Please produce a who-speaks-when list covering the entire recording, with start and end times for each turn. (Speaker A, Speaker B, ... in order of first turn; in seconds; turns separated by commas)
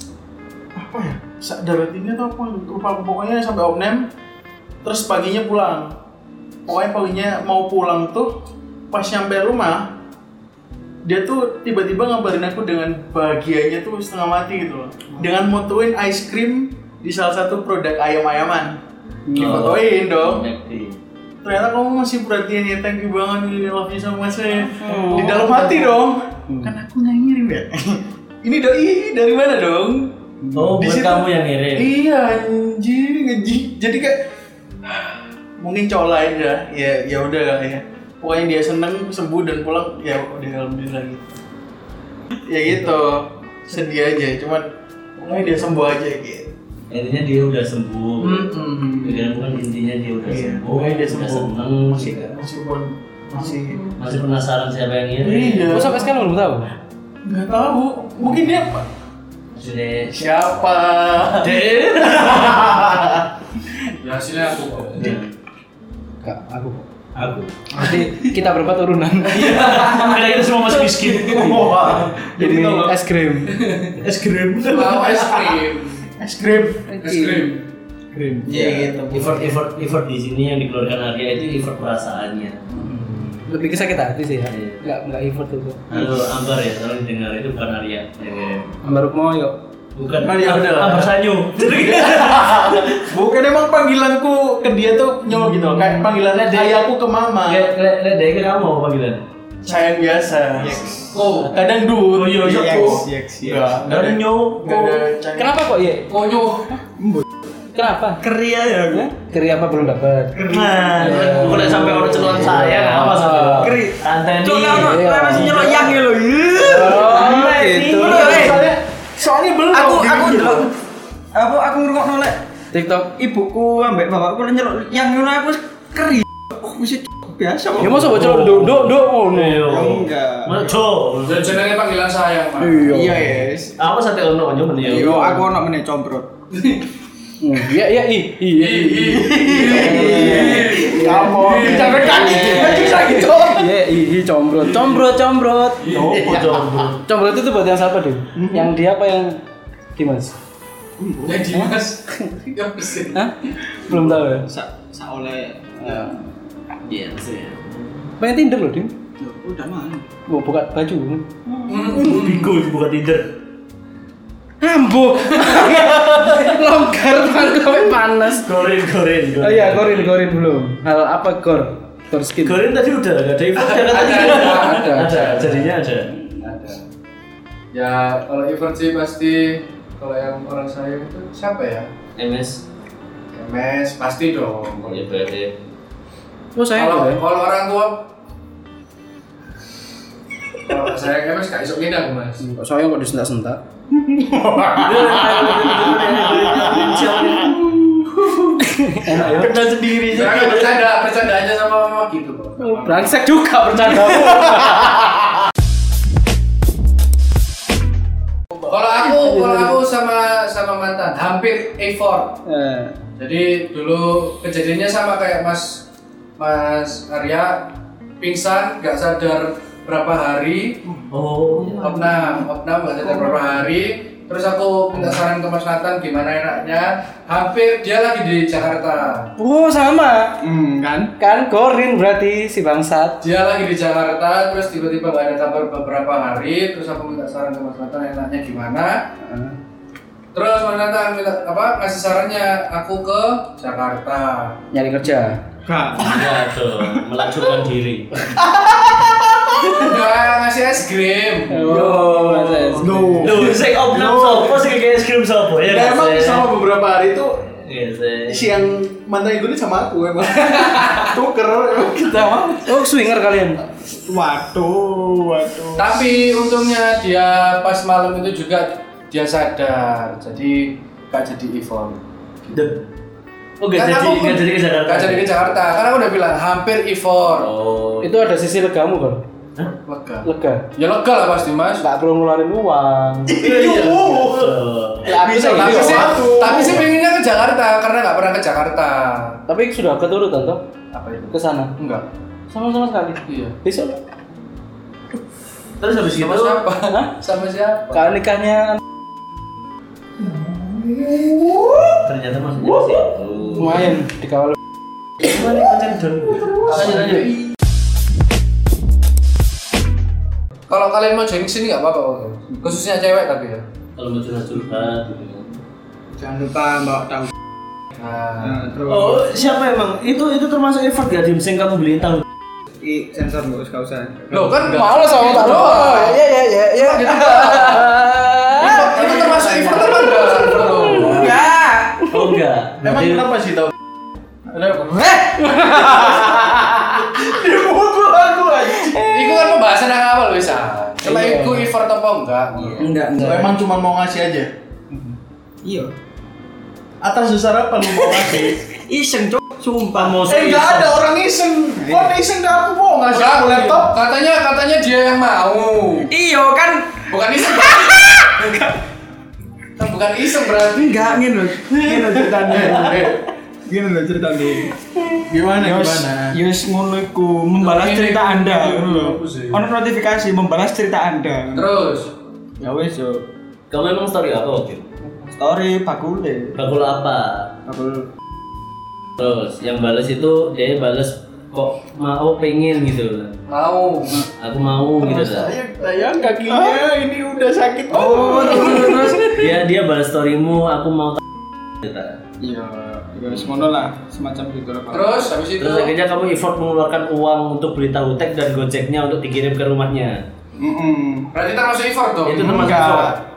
Speaker A: 0.8-4.1, Speaker A: 4.8-5.9, Speaker A: 6.7-8.3, Speaker A: 8.9-9.9, Speaker A: 11.0-18.8, Speaker B: 19.3-19.7, Speaker A: 19.3-20.5, Speaker C: 19.3-21.0, Speaker A: 21.4-34.2, Speaker B: 24.7-25.9, Speaker C: 30.5-31.9, Speaker A: 34.9-41.2, Speaker A: 42.3-44.6, Speaker A: 45.2-46.5, Speaker C: 46.9-48.4, Speaker A: 48.2-49.6, Speaker C: 49.0-52.4, Speaker A: 50.2-51.5, Speaker A: 52.1-54.0, Speaker C: 54.0-55.9, Speaker A: 55.2-56.1, Speaker B: 55.7-56.7, Speaker A: 57.2-58.9, Speaker C: 59.5-60.2, Speaker A: 60.1-61.6, Speaker C: 61.4-62.8, Speaker A: 62.1-63.2, Speaker D: 64.0-65.1, Speaker C: 65.0-65.3, Speaker B: 66.2-66.8, Speaker C: 67.2-67.5, Speaker B: 67.7-69.8, Speaker C: 69.3-72.8, Speaker D: 69.7-70.0, Speaker A: 71.0-72.9, Speaker B: 71.5-73.8, Speaker C: 74.0-75.5, Speaker D: 74.6-76.0, Speaker A: 75.2-75.5, Speaker A: 76.1-76.9, Speaker B: 76.9-77.6, Speaker D: 77.0-77.6, Speaker A: 78.4-79.4, Speaker E: 78.4-79.2, Speaker C: 79.1-82.6, Speaker B: 82.8-85.8, Speaker C: 84.5-84.8, Speaker C: 85.9-88.7, Speaker B: 88.8-89.6, Speaker C: 89.9-93.0, Speaker A: 90.2-97.7, Speaker C: 96.3-96.8, Speaker C: 97.4-99.2, Speaker E: 99.6-101.2, Speaker A: 99.7-100.8, Speaker D: 101.1-101.5, Speaker A: 101.5-105.6, Speaker C: 102.1-103.0, Speaker E: 102.4-103.7, Speaker C: 103.8-105.0, Speaker B: 105.3-106.2, Speaker D: 106.1-106.7, Speaker E: 107.0-107.2, Speaker B: 107.7-108.2, Speaker C: 108.2-109.0, Speaker B: 109.1-110.4, Speaker E: 110.3-111.2, Speaker C: 110.5-116.0, Speaker B: 111.0-113.8, Speaker E: 113.6-117.1, Speaker B: 114.7-115.9, Speaker B: 116.6-118.6, Speaker A: 116.6-117.3, Speaker C: 116.8-118.7, Speaker A: 117.8-120.7, Speaker E: 118.0-118.6, Speaker E: 119.7-120.7, Speaker E: 121.3-122.4, Speaker B: 122.7-123.1, Speaker E: 123.1-128.3, Speaker B: 127.8-129.6, Speaker C: 128.0-131.6, Speaker E: 129.6-130.9, Speaker D: 131.2-133.0, Speaker E: 132.6-133.7, Speaker C: 133.1-135.4, Speaker E: 134.8-136.3, Speaker B: 137.4-146.3, Speaker D: 138.5-142.5, Speaker E: 139.3-143.5, Speaker C: 139.8-140.7, Speaker A: 141.0-141.3, Speaker A: 141.9-143.5, Speaker D: 145.8-146.4, Speaker C: 145.9-147.0, Speaker B: 147.0-149.4, Speaker E: 148.3-148.7, Speaker B: 149.9-150.3, Speaker E: 151.0-151.6, Speaker D: 151.2-153.2, Speaker B: 151.5-152.3, Speaker B: 153.1-154.5, Speaker E: 153.9-156.2, Speaker B: 155.8-156.2, Speaker C: 156.8-158.1, Speaker B: 158.2-158.9, Speaker E: 159.2-160.1, Speaker B: 160.3-161.3, Speaker C: 161.5-163.3, Speaker D: 161.7-162.4, Speaker B: 164.6-168.5, Speaker C: 168.4-170.1, Speaker B: 169.4-172.6, Speaker C: 172.4-176.2, Speaker D: 173.5-176.8, Speaker D: 177.7-181.9, Speaker C: 182.2-182.6, Speaker D: 183.3-185.2, Speaker C: 184.8-185.5, Speaker B: 186.5-187.2, Speaker D: 186.7-188.0, Speaker D: 190.6-192.4, Speaker B: 192.4-193.6, Speaker A: 194.3-195.5, Speaker C: 194.8-197.7, Speaker B: 194.8-196.8, Speaker A: 196.0-196.5, Speaker A: 197.3-198.5, Speaker B: 198.6-199.6, Speaker A: 199.1-200.7, Speaker C: 199.4-199.8, Speaker D: 200.1-203.1, Speaker B: 202.6-204.9, Speaker D: 208.7-212.4, Speaker B: 209.1-209.8, Speaker B: 212.4-212.9, Speaker D: 213.2-215.8, Speaker D: 216.4-217.7, Speaker D: 218.2-220.8, Speaker C: 221.1-222.0, Speaker D: 221.8-229.2, Speaker B: 229.4-230.3, Speaker E: 230.4-231.1, Speaker B: 231.2-233.2, Speaker D: 233.2-238.9, Speaker B: 239.2-239.6, Speaker D: 240.3-244.6, Speaker B: 244.7-245.3, Speaker E: 245.6-247.0, Speaker C: 246.0-248.3, Speaker A: 248.3-249.0, Speaker D: 249.8-251.7, Speaker B: 251.5-253.3, Speaker A: 251.6-252.8, Speaker E: 252.8-253.6, Speaker C: 253.2-256.5, Speaker A: 253.9-254.6, Speaker A: 255.6-257.5, Speaker C: 257.6-258.6, Speaker A: 258.3-262.8, Speaker D: 260.4-261.1, Speaker B: 262.6-263.6, Speaker E: 264.0-265.9, Speaker D: 265.8-272.0, Speaker C: 272.5-272.9, Speaker C: 273.6-275.6, Speaker D: 273.7-277.5, Speaker C: 277.4-278.3, Speaker B: 278.0-279.2, Speaker D: 279.6-281.8, Speaker B: 280.2-280.6, Speaker B: 281.8-283.4, Speaker A: 283.3-286.8, Speaker D: 283.5-283.9, Speaker C: 283.7-285.1, Speaker B: 285.0-286.2, Speaker D: 285.4-289.4, Speaker B: 289.5-290.6, Speaker D: 290.9-292.1, Speaker B: 291.3-291.7, Speaker B: 292.5-294.0, Speaker D: 293.2-293.5, Speaker C: 295.8-296.6, Speaker D: 296.1-298.1, Speaker B: 297.9-298.8, Speaker C: 300.3-304.0, Speaker B: 303.6-304.6, Speaker C: 305.2-307.3, Speaker D: 306.6-307.3, Speaker B: 306.8-307.1, Speaker D: 310.7-313.6, Speaker C: 313.9-315.6, Speaker E: 316.2-317.3, Speaker D: 317.9-318.6, Speaker E: 318.4-319.2, Speaker C: 318.9-322.2, Speaker E: 322.8-324.8, Speaker D: 324.3-328.0, Speaker B: 324.7-328.9, Speaker A: 328.6-331.3, Speaker D: 328.6-331.4, Speaker B: 330.7-331.2, Speaker E: 330.7-332.0, Speaker C: 332.1-333.3, Speaker A: 332.8-333.7, Speaker A: 334.5-335.0, Speaker E: 335.1-335.5, Speaker B: 335.6-336.1, Speaker A: 335.8-339.1, Speaker E: 338.8-339.6, Speaker D: 339.1-342.9, Speaker B: 341.0-341.7, Speaker E: 342.8-343.6, Speaker A: 343.2-344.5, Speaker E: 345.6-345.9, Speaker A: 347.0-348.6, Speaker E: 347.8-350.3, Speaker C: 349.9-351.0, Speaker A: 350.3-353.9, Speaker E: 351.8-352.2, Speaker D: 353.1-356.1, Speaker E: 356.1-358.7, Speaker D: 357.1-358.6, Speaker D: 359.8-361.1, Speaker E: 360.7-371.7, Speaker A: 361.9-363.2, Speaker A: 365.2-366.4, Speaker D: 367.6-369.6, Speaker D: 371.5-372.1, Speaker E: 372.6-373.3, Speaker C: 373.7-374.9, Speaker E: 375.2-376.6, Speaker C: 376.5-377.5, Speaker E: 377.7-378.1, Speaker C: 379.2-383.3, Speaker D: 383.5-384.3, Speaker C: 384.4-385.5, Speaker A: 385.0-389.5, Speaker E: 386.5-386.8, Speaker E: 387.9-389.6, Speaker C: 389.3-391.2, Speaker C: 391.8-392.2, Speaker E: 392.4-395.2, Speaker D: 394.9-395.9, Speaker C: 395.6-400.2, Speaker E: 400.6-401.3, Speaker D: 401.3-402.8, Speaker C: 402.2-403.2, Speaker E: 402.5-403.1